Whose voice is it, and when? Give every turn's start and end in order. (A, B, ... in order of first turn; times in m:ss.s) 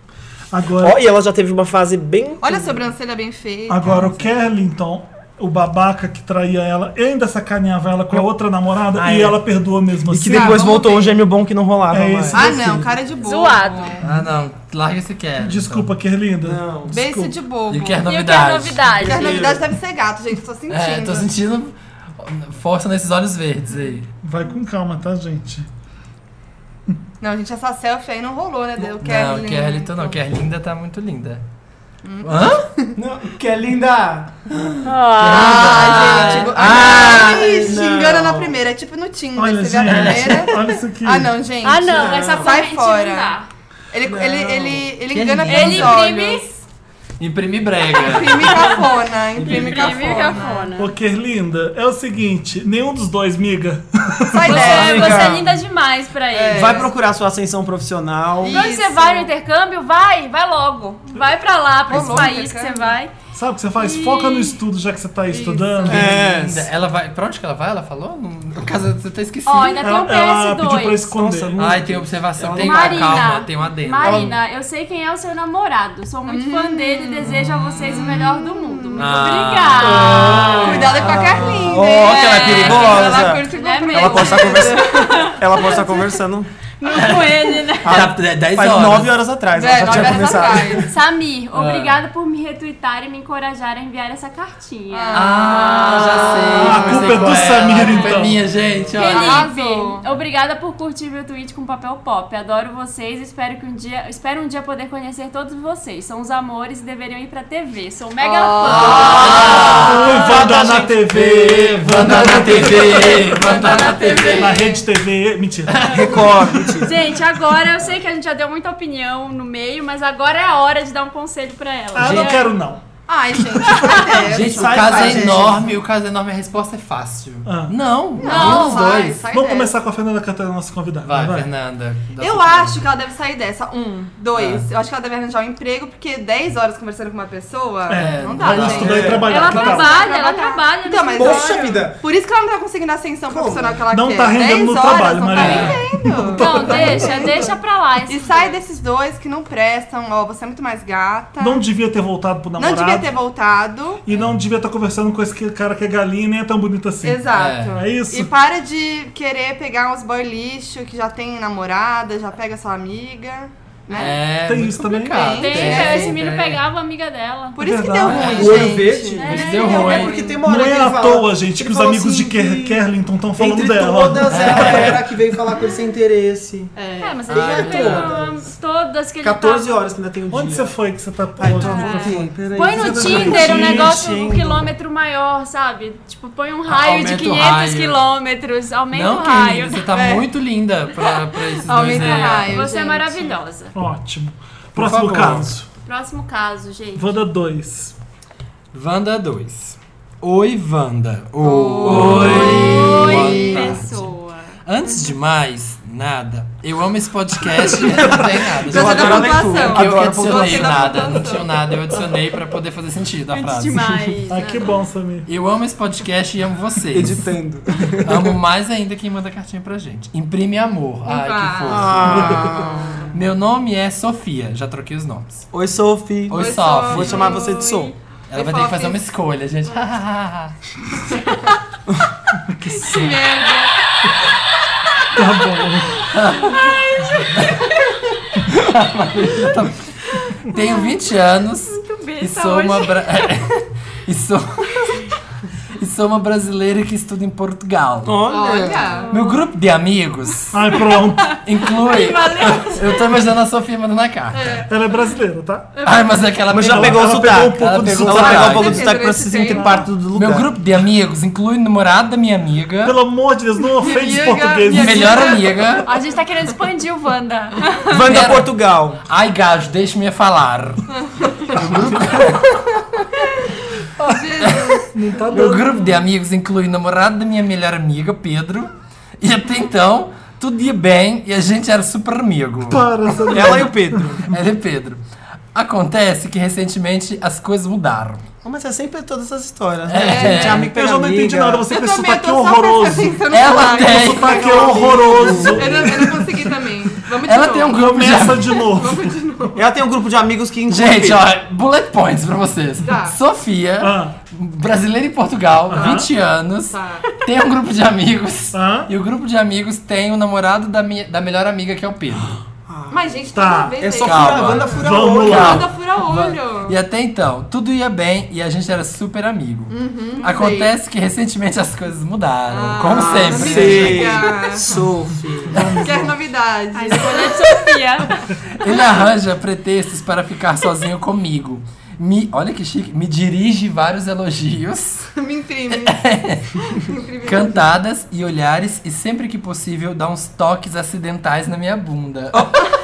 0:00.5-0:01.0 A
0:00.8-0:02.8 B
0:02.4-0:04.1 C
0:03.7-0:10.7 A
0:09.0-0:09.4 B
0:10.1-0:12.9 B
0:10.2-0:11.2 C
0:11.9-0:12.8 A
0:12.3-0:14.1 C
0:13.2-0:14.0 D
0:14.0-0:15.9 E
0:15.4-0:17.3 A
0:16.4-0:17.0 B
0:16.9-0:18.0 C
0:17.7-0:18.9 E
0:18.0-0:19.5 D
0:19.0-0:19.6 B
0:19.0-0:21.3 C
0:20.7-0:24.1 E
0:24.2-0:25.7 A
0:27.2-0:30.2 C
0:28.8-0:31.4 E
0:32.0-0:32.9 C
0:32.2-0:32.7 E
0:33.0-0:34.4 B
0:34.7-0:37.8 E
0:34.8-0:36.8 D
0:35.3-0:43.4 C
0:36.7-0:38.6 B
0:39.4-0:41.4 A
0:39.8-0:40.6 E
0:41.6-0:43.5 D
0:41.9-0:42.5 B
0:43.9-0:46.6 C
0:44.1-0:44.9 B
0:45.1-0:46.0 E
0:45.5-0:46.5 D
0:47.2-0:50.4 E
0:47.9-0:50.8 C
0:49.4-0:50.9 D
0:50.8-0:54.6 A
0:54.3-0:55.4 C
0:54.4-0:55.6 B
0:54.4-0:56.9 D
0:56.3-0:56.9 C
0:56.5-0:58.7 B
0:58.4-0:59.3 C
0:58.5-1:03.1 D
1:01.9-1:03.0 C
1:03.3-1:06.3 A
1:03.8-1:04.6 D
1:05.3-1:06.2 C
1:05.9-1:06.7 B
1:06.0-1:09.9 E
1:09.5-1:11.1 D
1:09.8-1:11.6 A
1:11.1-1:13.4 B
1:11.6-1:14.2 E
1:12.6-1:20.7 D
1:14.0-1:14.4 B
1:16.3-1:17.3 C
1:17.2-1:18.1 E
1:17.9-1:19.1 C
1:19.0-1:21.6 E
1:20.0-1:20.9 A
1:20.0-1:25.7 C
1:20.1-1:26.5 B
1:22.3-1:26.1 D
1:26.8-1:28.1 D
1:26.9-1:30.5 E
1:27.8-1:30.9 B
1:29.5-1:30.9 C
1:30.9-1:37.0 D
1:31.5-1:32.0 E
1:34.9-1:38.2 C
1:35.1-1:39.5 E
1:36.6-1:38.4 A
1:37.8-1:38.1 D
1:38.9-1:50.8 D
1:39.0-1:40.0 C
1:48.2-1:51.0 C
1:48.6-1:50.2 E
1:49.7-1:53.1 A
1:51.0-1:54.5 E
1:52.1-1:54.8 C
1:53.6-1:54.4 D
1:54.2-1:56.8 A
1:55.7-1:56.2 E
1:55.9-1:56.9 B
1:56.8-2:02.5 D
2:01.9-2:02.8 A
2:02.0-2:02.3 E
2:03.1-2:05.6 C
2:03.6-2:04.1 A
2:04.2-2:09.2 E
2:04.5-2:05.7 B
2:07.5-2:07.8 A
2:08.2-2:09.8 C
2:08.2-2:09.0 D
2:08.3-2:11.5 A
2:11.0-2:12.8 E
2:12.2-2:27.5 C
2:14.3-2:14.7 E
2:17.9-2:20.0 A
2:17.9-2:19.2 E
2:18.7-2:19.3 B
2:19.2-2:21.8 D
2:21.2-2:22.0 B
2:23.3-2:23.8 B
2:23.9-2:27.2 A
2:25.4-2:25.7 D
2:25.4-2:25.7 E
2:26.4-2:28.6 D
2:28.1-2:31.6 C
2:31.4-2:33.1 A
2:32.6-2:34.0 C
2:34.1-2:38.3 A
2:37.0-2:44.3 C
2:37.3-2:37.8 E
2:43.9-2:46.6 E
2:44.3-2:45.5 A
2:45.1-2:46.2 C
2:45.4-2:47.6 D
2:47.6-2:50.4 C
2:47.6-2:48.5 A
2:48.0-2:50.3 E
2:48.2-2:50.1 D
2:48.4-2:52.8 B
2:50.4-2:55.0 A
2:53.4-2:56.8 B
2:54.3-2:55.0 E
2:56.8-2:57.2 C
2:57.0-2:59.8 D
2:57.3-2:58.2 E
2:57.3-2:58.5 B
2:59.2-3:00.7 B
3:00.3-3:04.0 A
3:01.4-3:04.7 B
3:01.6-3:09.9 D
3:06.7-3:08.0 E
3:08.9-3:12.6 E
3:09.9-3:10.2 C
3:11.6-3:13.4 C
3:11.9-3:13.7 D
3:13.8-3:15.7 A
3:14.8-3:15.5 E
3:15.9-3:17.2 D
3:17.0-3:18.0 A
3:18.7-3:24.1 E
3:21.4-3:23.8 C
3:21.8-3:24.6 D
3:24.6-3:34.2 E
3:27.7-3:31.2 B
3:28.6-3:31.7 C
3:33.3-3:34.6 D
3:34.3-3:35.3 A
3:34.3-3:34.7 C
3:35.3-3:37.2 E
3:36.9-3:38.4 B
3:38.0-3:42.5 E
3:41.1-3:43.1 C
3:41.6-3:43.1 B
3:43.1-3:45.5 E
3:45.5-3:47.9 B
3:46.3-3:47.4 E
3:46.3-3:49.0 C
3:48.3-3:50.6 E
3:52.5-3:53.1 A
3:52.7-3:53.7 C
3:55.1-3:56.1 A
3:56.1-3:56.8 E
3:56.6-3:58.0 D
3:57.3-3:57.7 E
3:58.5-3:59.9 E
4:00.1-4:00.9 D
4:00.5-4:05.1 E
4:01.6-4:03.0 D
4:05.8-4:08.2 E
4:08.0-4:09.0 B
4:08.3-4:09.1 C
4:08.9-4:09.4 D
4:09.1-4:10.7 E
4:10.5-4:11.4 A
4:11.3-4:14.6 E
4:11.8-4:13.0 D
4:14.3-4:14.7 C
4:14.7-4:15.8 A
4:15.8-4:18.9 E
4:16.5-4:20.5 B
4:16.5-4:18.6 A
4:18.3-4:19.8 C
4:20.1-4:23.0 E
4:22.8-4:25.3 A
4:23.8-4:26.2 C
4:24.7-4:25.9 E
4:25.8-4:27.8 D
4:27.9-4:29.0 B
4:28.0-4:33.1 E
4:34.0-4:34.9 C
4:34.4-4:34.8 E
4:34.9-4:35.8 A
4:35.3-4:43.6 E
4:42.7-4:44.3 A
4:43.3-4:44.2 B
4:44.3-4:45.0 E
4:45.5-4:48.2 E
4:48.4-4:51.7 B
4:49.9-4:50.7 E
4:50.0-4:50.7 C
4:50.7-4:56.5 A
4:51.7-4:59.6 C
4:53.3-4:54.5 E
4:54.4-4:56.0 B
4:57.2-4:58.6 E
4:57.7-4:59.2 A
4:59.6-5:01.3 B
5:00.7-5:12.4 E
5:02.8-5:03.2 C
5:03.8-5:04.2 A
5:05.7-5:06.1 A
5:06.7-5:07.0 C
5:08.5-5:08.9 A
5:12.7-5:13.2 B
5:12.9-5:16.8 C
5:13.3-5:13.8 A
5:13.8-5:15.6 B
5:14.0-5:24.3 E
5:14.8-5:15.6 A
5:19.7-5:20.7 C
5:22.5-5:24.7 C
5:22.8-5:25.6 B
5:25.5-5:26.2 A
5:25.8-5:27.8 C
5:26.7-5:28.2 D
5:28.5-5:35.1 E
5:35.2-5:36.0 C
5:35.7-5:36.5 E
5:36.7-5:37.7 C
5:37.2-5:42.7 E